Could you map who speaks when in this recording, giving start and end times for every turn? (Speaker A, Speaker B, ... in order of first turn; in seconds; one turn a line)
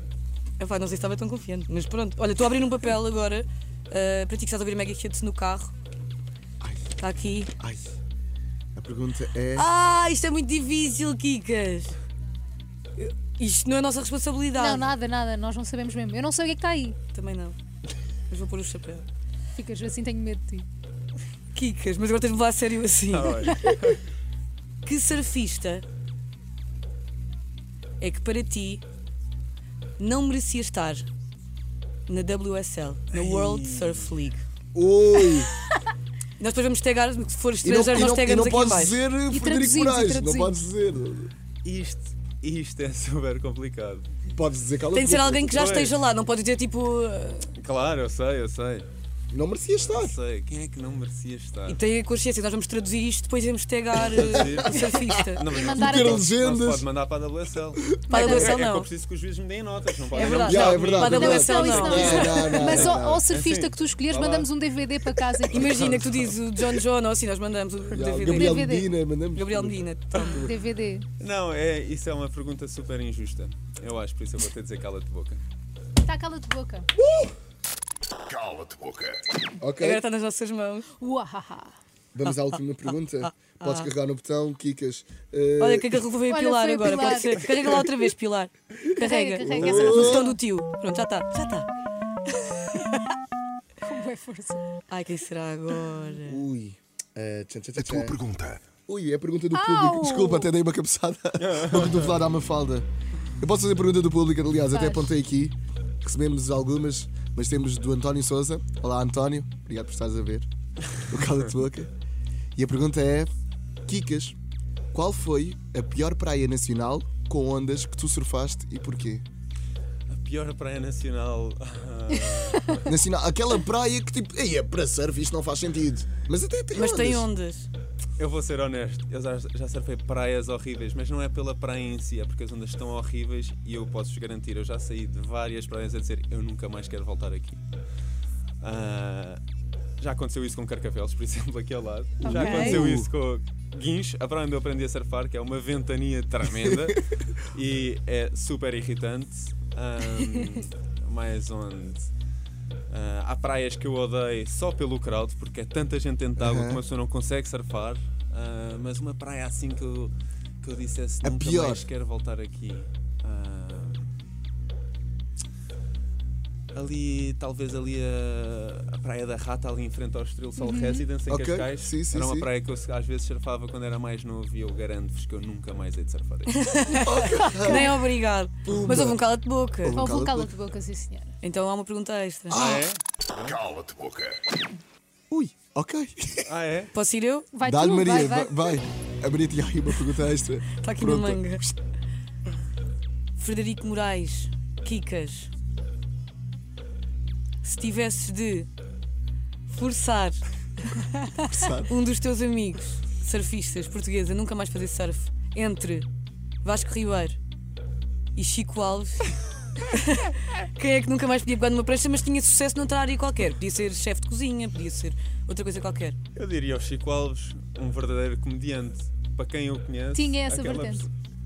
Speaker A: 0.6-5.7
Speaker B: 6.6-7.0
Speaker A: 7.0-7.5
Speaker B: 7.6-8.0
Speaker B: 8.8-9.7
Speaker A: 9.6-11.9
Speaker A: 13.0-14.9
Speaker C: 14.5-17.0
Speaker A: 17.1-17.6
Speaker A: 18.3-19.1
Speaker C: 19.6-20.7
Speaker A: 21.5-23.5
Speaker D: 23.1-24.0
Speaker A: 24.8-25.9
Speaker A: 28.0-28.8
Speaker A: 30.0-31.1
Speaker A: 32.1-34.5
Speaker D: 33.1-34.1
Speaker B: 34.7-35.5
Speaker A: 36.4-39.0
Speaker B: 37.6-41.3
Speaker C: 39.3-40.5
Speaker D: 41.6-44.1
Speaker B: 44.3-45.9
Speaker A: 44.9-47.5
Speaker D: 45.5-46.0
Speaker D: 47.5-48.9
Speaker B: 49.3-50.2
Speaker D: 49.9-51.8
Speaker A: 51.7-55.4
Speaker D: 54.0-64.6
Speaker B: 54.1-56.9
Speaker C: 55.5-56.2
Speaker B: 57.8-58.1
Speaker C: 58.1-58.6
Speaker A: 58.1-58.9
Speaker A: 60.1-63.0
Speaker B: 60.2-63.3
Speaker C: 61.0-66.0
Speaker A: 65.5-68.6
Speaker D: 65.6-66.3
Speaker B: 67.9-69.8
Speaker C: 68.3-68.9
Speaker A: 69.3-70.5
Speaker C: 70.3-71.1
Speaker D: 71.2-75.4
Speaker C: 76.0-76.9
Speaker B: 77.0-77.3
Speaker E: 78.3-79.2
Speaker B: 79.6-80.0
Speaker A: 79.8-80.9
Speaker C: 81.0-81.8
Speaker B: 82.1-86.0
Speaker A: 83.2-83.9
Speaker A: 85.6-91.7
Speaker C: 86.3-87.8
Speaker C: 89.0-90.4
Speaker B: 89.4-90.3
Speaker D: 89.6-90.1
Speaker A: 92.4-93.0
Speaker C: 93.8-94.7
Speaker A: 94.9-96.4
Speaker B: 96.2-98.2
Speaker E: 97.8-98.6
Speaker B: 98.9-110.5
Speaker C: 99.5-100.5
Speaker D: 101.4-102.2
Speaker C: 104.7-105.1
Speaker B: 111.0-111.9
Speaker B: 112.6-113.3
Speaker B: 113.9-114.4
Speaker B: 114.9-119.2
Speaker D: 120.1-122.8
Speaker B: 122.8-127.3
Speaker A: 126.7-127.7
Speaker D: 128.2-137.6
Speaker D: 138.6-139.4
Speaker D: 140.0-152.1
Speaker B: 142.2-143.1
Speaker C: 142.2-142.8
Speaker D: 152.9-164.1
Speaker B: 156.4-156.8
Speaker B: 161.2-161.9
Speaker D: 166.7-176.8
Speaker C: 170.6-171.1
Speaker B: 171.3-172.5
Speaker A: 176.5-180.0
Speaker B: 176.9-178.0
Speaker C: 177.3-177.9
Speaker B: 178.7-179.2
Speaker B: 179.8-180.5
Speaker C: 179.9-181.3
Speaker A: 181.4-182.6
Speaker B: 182.5-182.9
Speaker D: 182.5-183.6
Speaker E: 183.6-184.4
Speaker B: 185.3-186.5
Speaker D: 186.4-186.9
Speaker A: 186.9-187.5
Speaker C: 187.5-188.8
Speaker B: 187.6-191.8
Speaker A: 190.8-191.7
Speaker A: 193.4-195.5
Speaker A: 197.6-198.7
Speaker A: 199.7-200.4
Speaker B: 201.4-201.9
Speaker A: 201.7-206.1
Speaker A: 206.6-207.4
Speaker A: 208.3-209.2
Speaker A: 209.8-216.2
Speaker D: 216.3-221.1
Speaker C: 220.1-221.1